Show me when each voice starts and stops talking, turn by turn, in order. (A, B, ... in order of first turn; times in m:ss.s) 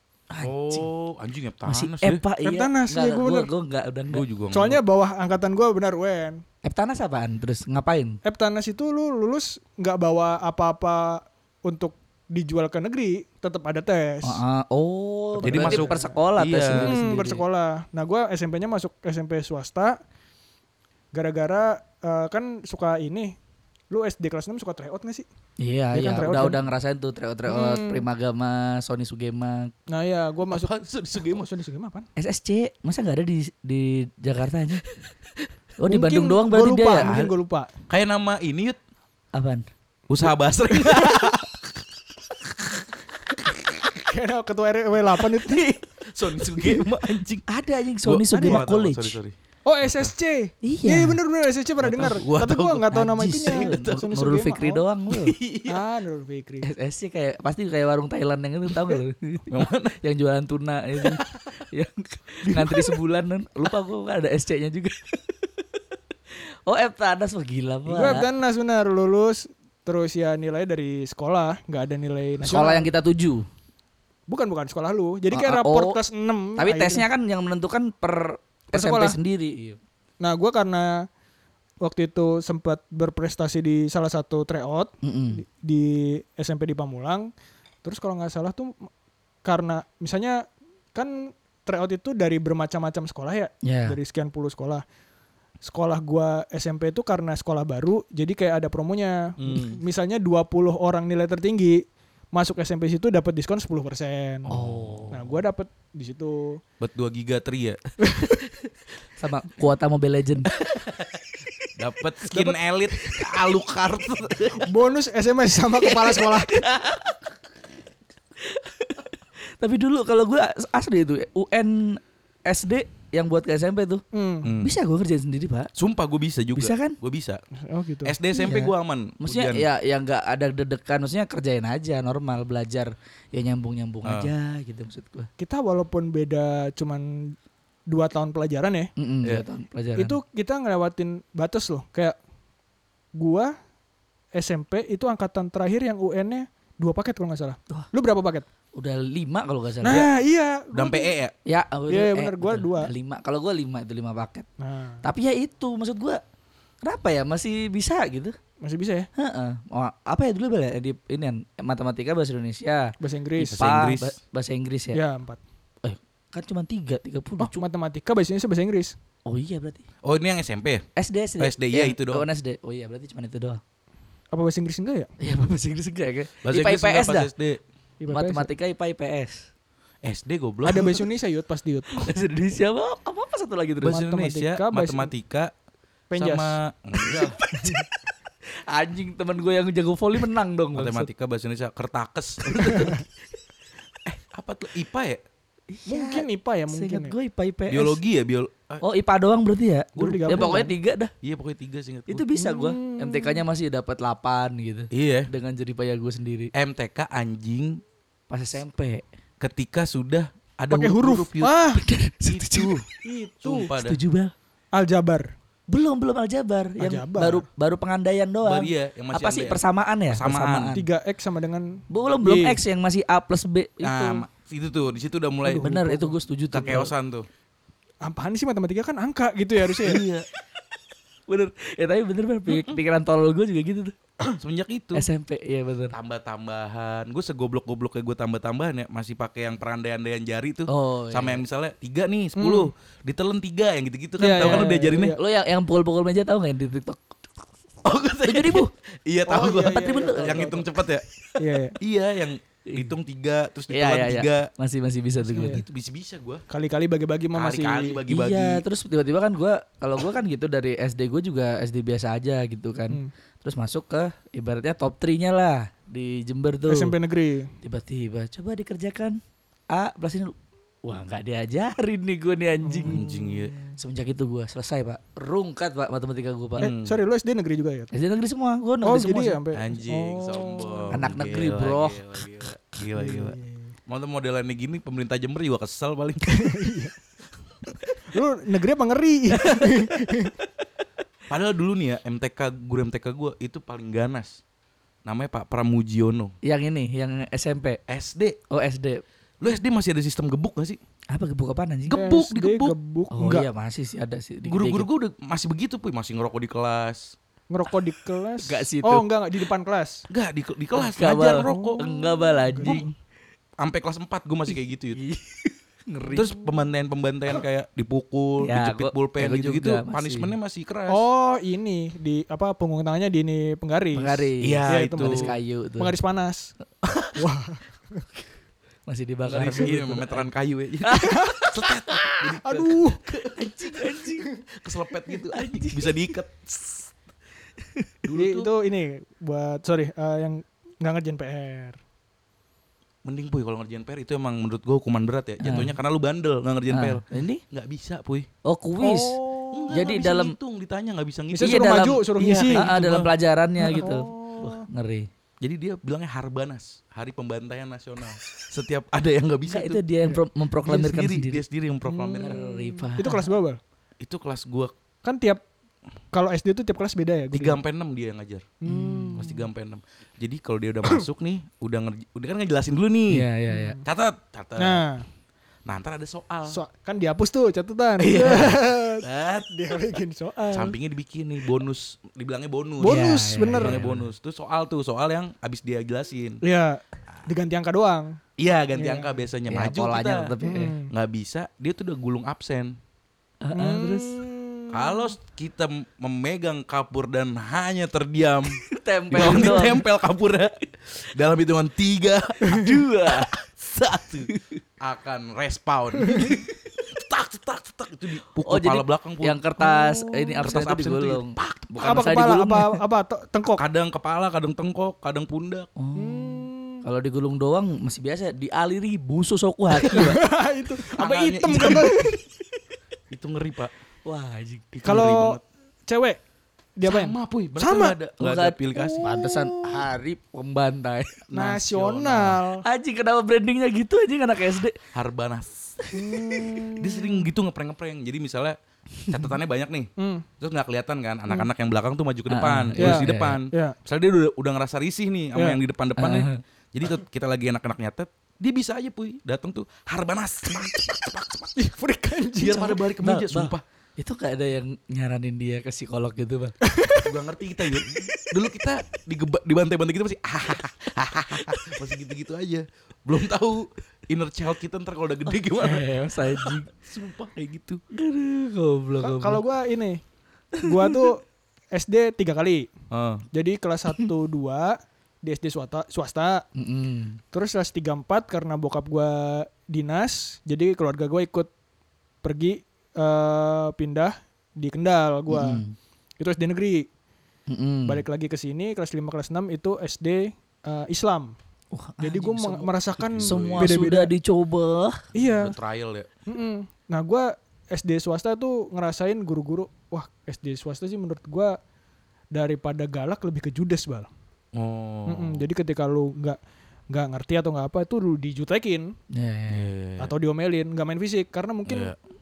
0:00.3-0:00.9 A
0:00.4-0:02.2 B
0:01.7-0:04.2 A
0:02.4-0:03.5 C
0:04.1-0:04.8 B
0:04.5-0:06.4 C
0:06.6-0:08.2 A
0:08.2-0:14.4 C
0:14.2-0:17.4 A
0:15.4-0:16.2 C
0:15.5-0:17.0 B
0:16.7-0:20.0 C
0:21.1-0:23.4 C
0:23.9-0:25.3 C
0:25.6-0:29.7 A
0:25.9-0:26.6 C
0:27.5-0:28.1 C
0:29.9-0:32.1 C
0:30.5-0:31.5 B
0:32.2-0:34.8 A
0:35.8-0:37.2 A
0:35.9-0:37.7 C
0:37.0-0:37.3 B
0:37.9-0:38.8 B
0:39.3-0:39.7 A
0:40.1-0:41.5 B
0:44.0-0:45.7 C
0:46.0-0:47.4 B
0:46.6-0:49.2 A
0:48.0-0:50.1 B
0:48.3-0:48.6 C
0:49.6-0:54.8 C
0:50.6-0:51.2 A
0:51.8-0:52.9 B
0:52.9-0:55.4 A
0:53.4-0:54.1 B
0:55.1-0:55.8 B
0:55.7-0:56.7 C
0:56.6-1:05.6 A
0:59.5-1:00.0 B
1:06.7-1:08.3 A
1:07.9-1:12.9 C
1:12.4-1:13.5 A
1:14.3-1:17.0 C
1:15.3-1:16.0 A
1:16.6-1:19.8 A
1:18.7-1:19.2 C
1:20.2-1:21.1 C
1:21.8-1:27.3 C
1:25.0-1:25.4 A
1:27.8-1:28.9 C
1:29.4-1:34.8 C
1:33.6-1:34.0 A
1:35.6-1:44.5 C
1:39.4-1:39.8 B
1:44.5-1:45.0 B
1:44.5-1:45.4 A
1:45.1-1:46.6 C
1:46.8-1:47.8 B
1:48.0-1:48.4 C
1:49.2-1:50.5 A
1:50.6-1:51.2 B
1:51.8-1:54.7 B
1:52.3-1:52.6 C
1:54.6-1:56.6 C
1:56.0-1:57.2 A
1:58.4-2:04.0 A
2:04.1-2:04.5 C
2:04.4-2:04.7 B
2:04.6-2:05.7 A
2:05.8-2:07.4 B
2:06.6-2:07.0 A
2:07.7-2:08.2 C
2:08.0-2:09.7 B
2:08.4-2:15.3 A
2:14.0-2:14.3 B
2:15.4-2:17.4 C
2:17.9-2:18.9 C
2:19.0-2:20.2 A
2:20.0-2:22.2 C
2:23.2-2:23.5 C
2:24.4-2:28.5 C
2:28.8-2:30.0 A
2:29.8-2:31.1 C
2:29.8-2:30.1 B
2:30.7-2:31.3 B
2:31.5-2:34.5 A
2:31.9-2:32.9 C
2:34.6-2:35.0 C
2:35.0-2:36.2 A
2:36.8-2:38.4 A
2:38.6-2:39.1 C
2:39.2-2:42.9 A
2:43.0-2:43.7 C
2:43.4-2:44.2 B
2:43.5-2:45.0 A
2:44.9-2:45.4 C
2:45.8-2:47.6 A
2:47.4-2:49.0 C
2:49.3-2:49.8 A
2:50.0-2:50.9 B
2:51.0-2:53.6 A
2:51.4-2:52.3 B
2:54.3-2:55.1 C
2:55.2-2:57.3 A
2:56.4-2:57.6 B
2:58.0-2:58.5 C
2:58.1-2:59.5 A
3:00.0-3:01.0 B
3:00.6-3:02.1 C
3:01.9-3:04.0 A
3:03.8-3:05.5 B
3:03.8-3:05.1 C
3:06.1-3:06.6 C
3:06.2-3:07.4 B
3:07.1-3:07.8 A
3:08.7-3:11.1 A
3:10.8-3:13.0 B
3:12.5-3:13.0 A
3:14.0-3:15.2 B
3:15.7-3:18.0 A
3:15.9-3:17.2 C
3:17.7-3:18.8 B
3:18.8-3:21.1 A
3:20.0-3:20.6 B
3:20.0-3:20.7 C
3:21.2-3:22.2 B
3:22.1-3:26.5 A
3:22.4-3:23.4 C
3:24.9-3:25.3 B
3:26.5-3:27.8 B
3:28.3-3:29.1 A
3:29.4-3:31.5 B
3:30.7-3:31.8 C
3:31.8-3:32.8 A
3:32.3-3:32.8 B
3:33.0-3:33.7 C
3:33.4-3:34.0 B
3:33.8-3:34.3 A
3:34.7-3:35.3 C
3:35.7-3:40.9 A
3:36.8-3:37.4 C
3:38.4-3:40.8 B
3:40.7-3:42.6 C
3:41.9-3:44.2 A
3:43.8-3:45.7 B
3:45.5-3:46.2 C
3:45.6-3:46.9 A
3:46.5-3:47.3 B
3:48.0-3:50.0 C
3:49.8-3:50.3 B
3:51.3-3:53.9 A
3:52.5-3:52.8 B
3:54.4-3:55.1 B
3:54.9-3:56.0 A
3:55.9-4:05.2 B
4:00.7-4:01.4 A
4:02.4-4:02.7 C
4:04.2-4:05.2 C
4:04.4-4:07.1 A
4:07.8-4:11.0 B
4:08.2-4:08.7 A
4:09.3-4:10.6 C
4:09.6-4:10.6 A
4:11.4-4:11.8 C
4:11.8-4:14.5 B
4:13.7-4:15.6 A
4:15.2-4:16.4 B
4:15.4-4:15.6 C
4:16.5-4:18.0 C
4:17.3-4:18.6 B
4:18.1-4:27.0 A
4:26.7-4:27.5 C
4:27.6-4:29.2 A
4:29.7-4:30.3 A
4:30.8-4:33.0 A
4:32.6-4:33.8 C
4:32.9-4:33.6 B
4:33.8-4:36.7 A
4:36.6-4:37.0 B
4:36.6-4:37.9 C
4:37.9-4:39.4 A
4:38.8-4:41.0 C
4:39.5-4:43.4 B
4:40.9-4:42.3 A
4:43.0-4:43.7 C
4:43.9-4:46.6 B
4:46.3-4:47.0 C
4:48.1-4:50.4 C
4:49.4-4:50.1 A
4:51.3-4:54.4 B
4:55.0-4:56.4 B
4:56.4-4:57.8 A
4:57.9-4:58.4 B
4:58.5-4:59.0 A
4:59.4-5:00.8 B
5:01.1-5:02.1 A
5:01.9-5:02.8 B
5:01.9-5:03.5 C
5:03.1-5:04.9 A
5:04.5-5:07.2 B
5:07.5-5:10.1 C
5:08.4-5:09.1 A
5:10.1-5:11.9 B
5:10.8-5:12.9 A
5:11.4-5:12.8 C
5:12.6-5:12.9 B
5:13.6-5:15.0 B
5:15.0-5:16.3 A
5:16.1-5:21.0 B
5:18.4-5:20.3 A
5:20.9-5:26.5 C
5:23.9-5:25.9 A
5:24.4-5:25.3 B
5:26.8-5:27.2 A
5:27.2-5:28.0 C
5:28.9-5:30.3 A
5:29.3-5:34.0 B
5:29.4-5:29.7 C
5:30.8-5:32.4 A
5:30.9-5:31.5 C
5:32.4-5:33.0 C
5:33.1-5:34.3 A
5:34.5-5:36.9 B
5:35.3-5:36.1 A
5:37.6-5:37.9 A
5:38.0-5:38.5 B
5:38.1-5:41.8 C
5:43.0-5:48.3 B
5:45.4-5:45.7 A
5:46.7-5:47.4 A
5:48.4-5:49.2 A
5:48.8-5:49.8 C
5:49.5-5:53.1 B
5:49.7-5:50.4 A
5:51.3-5:52.7 C
5:51.4-5:55.1 A
5:53.6-5:54.6 C
5:55.4-5:59.8 B
5:59.5-6:01.4 A
6:00.6-6:02.4 B
6:01.8-6:03.6 C
6:02.2-6:03.3 A
6:04.0-6:04.7 B
6:05.0-6:05.4 C
6:06.1-6:07.6 C
6:07.3-6:08.4 B
6:08.6-6:09.4 C
6:08.7-6:09.2 A
6:09.2-6:13.3 B
6:13.1-6:13.8 A
6:13.5-6:13.8 C
6:13.8-6:14.8 B
6:14.6-6:15.0 C
6:15.7-6:16.6 B
6:16.5-6:20.8 C
6:18.0-6:19.8 B
6:20.5-6:26.4 B
6:22.8-6:23.8 C
6:22.8-6:24.1 A
6:26.4-6:28.2 C
6:28.4-6:30.4 B
6:28.8-6:29.2 C
6:29.5-6:30.7 A
6:30.4-6:30.9 C
6:30.9-6:32.8 B
6:33.4-6:34.2 A
6:33.6-6:35.1 C
6:34.7-6:49.4 B
6:38.7-6:39.8 A
6:42.5-6:43.3 A
6:44.3-6:44.6 A
6:48.4-6:52.8 A
6:49.7-6:50.4 C
6:50.4-6:51.7 B
6:51.8-6:53.6 C
6:53.6-6:55.7 B
6:55.8-7:00.2 A
6:56.0-6:56.8 C
6:59.8-7:02.2 C
7:00.9-7:02.1 B
7:01.5-7:01.9 A
7:03.1-7:03.7 B
7:04.1-7:04.7 A
7:04.7-7:05.4 B
7:04.8-7:06.2 C
7:06.8-7:08.0 C
7:06.8-7:09.1 B
7:08.2-7:11.3 A
7:08.8-7:09.9 C
7:11.3-7:12.4 B
7:11.3-7:12.6 C
7:12.6-7:14.8 A
7:14.9-7:15.9 B
7:15.8-7:16.7 A
7:15.9-7:17.2 C
7:16.8-7:18.6 B
7:19.1-7:31.6 B
7:20.0-7:20.3 C
7:22.3-7:23.4 A
7:22.8-7:23.8 C
7:26.0-7:26.4 A
7:31.6-7:32.8 C
7:32.4-7:33.6 B
7:33.0-7:36.6 A
7:36.6-7:37.1 C
7:37.0-7:47.8 B
7:45.5-7:46.7 A
7:47.9-7:49.4 A
7:49.0-7:50.0 C
7:50.6-7:52.7 C
7:50.6-7:51.0 A
7:52.9-7:53.2 B
7:53.3-7:56.4 C
7:56.6-7:57.2 A
7:57.3-8:01.5 C
8:02.2-8:05.6 C
8:05.3-8:05.8 A
8:06.2-8:06.9 C
8:07.5-8:08.0 A
8:07.9-8:11.4 C
8:11.7-8:15.0 A
8:12.0-8:14.1 C
8:13.0-8:13.8 B
8:15.1-8:15.6 C
8:15.2-8:16.1 B
8:16.3-8:21.6 C
8:22.3-8:24.1 C
8:24.6-8:25.4 B
8:25.1-8:26.4 C
8:26.9-8:28.9 C
8:29.1-8:29.7 A
8:29.5-8:30.1 B
8:30.0-8:31.9 C
8:31.7-8:32.0 B